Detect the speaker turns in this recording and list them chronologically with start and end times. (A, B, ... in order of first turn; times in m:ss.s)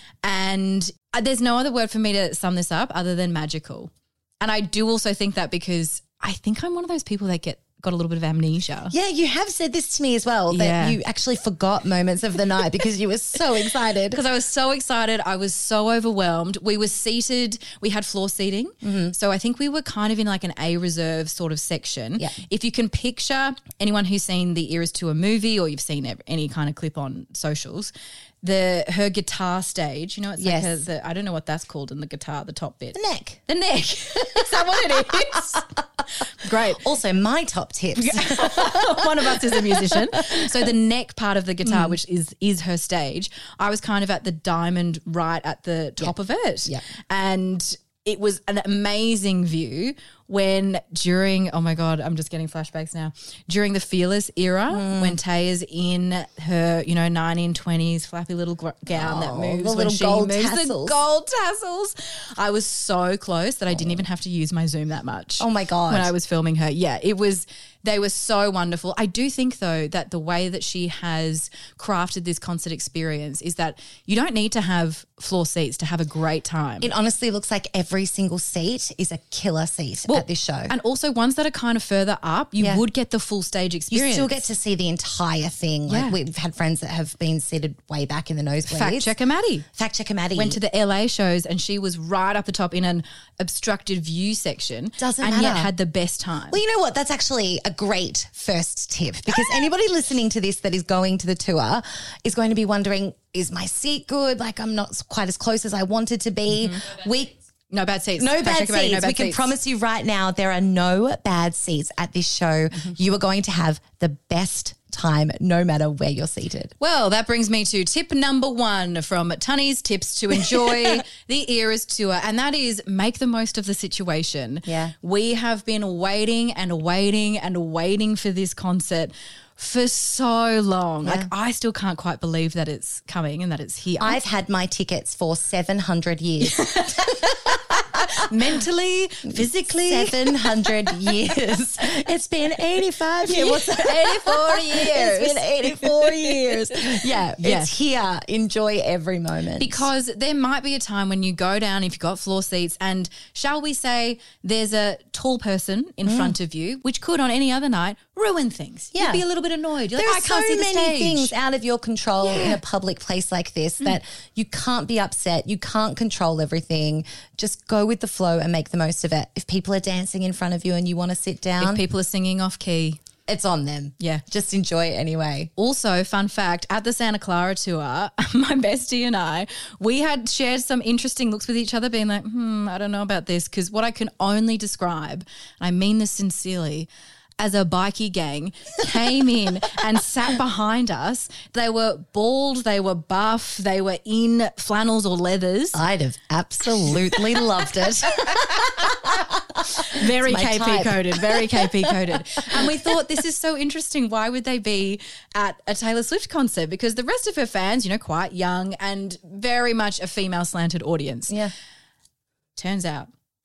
0:00.2-0:08.9 A
0:08.9-0:14.2 B
0:10.5-0:11.0 A
0:14.1-0:35.6 A
0:18.8-0:19.1 B
0:30.4-0:30.8 B
0:32.9-0:33.4 B
0:34.4-0:35.2 B
0:36.4-0:36.8 A
0:36.8-0:40.4 B
0:38.0-1:16.9 A
0:41.6-0:42.0 B
0:54.7-0:55.2 B
0:58.9-1:01.0 B
1:03.7-1:04.0 B
1:05.4-1:06.1 B
1:16.8-1:20.7 B
1:20.1-1:24.4 A
1:22.6-1:22.8 B
1:23.9-1:29.1 B
1:25.9-1:26.2 A
1:28.6-1:29.6 A
1:29.7-1:30.6 B
1:30.3-1:36.6 A
1:35.0-1:35.7 B
1:36.5-1:47.4 B
1:46.5-1:46.9 A
1:47.7-1:49.5 A
1:48.2-1:56.7 B
1:56.8-2:14.2 A
2:00.4-2:00.7 B
2:04.6-2:04.9 B
2:11.0-2:11.3 B
2:14.0-2:17.2 B
2:16.4-2:20.7 A
2:19.3-2:29.9 B
2:23.2-2:27.7 A
2:29.6-2:41.3 A
2:36.0-2:36.3 B
2:38.9-2:39.2 B
2:39.9-2:51.8 B
2:42.2-2:42.6 A
2:51.6-2:53.0 A
2:53.3-2:55.5 B
2:55.6-3:06.9 A
3:07.4-3:15.8 A
3:15.7-3:22.9 B
3:18.3-3:19.0 A
3:19.7-3:31.4 A
3:32.6-3:33.1 A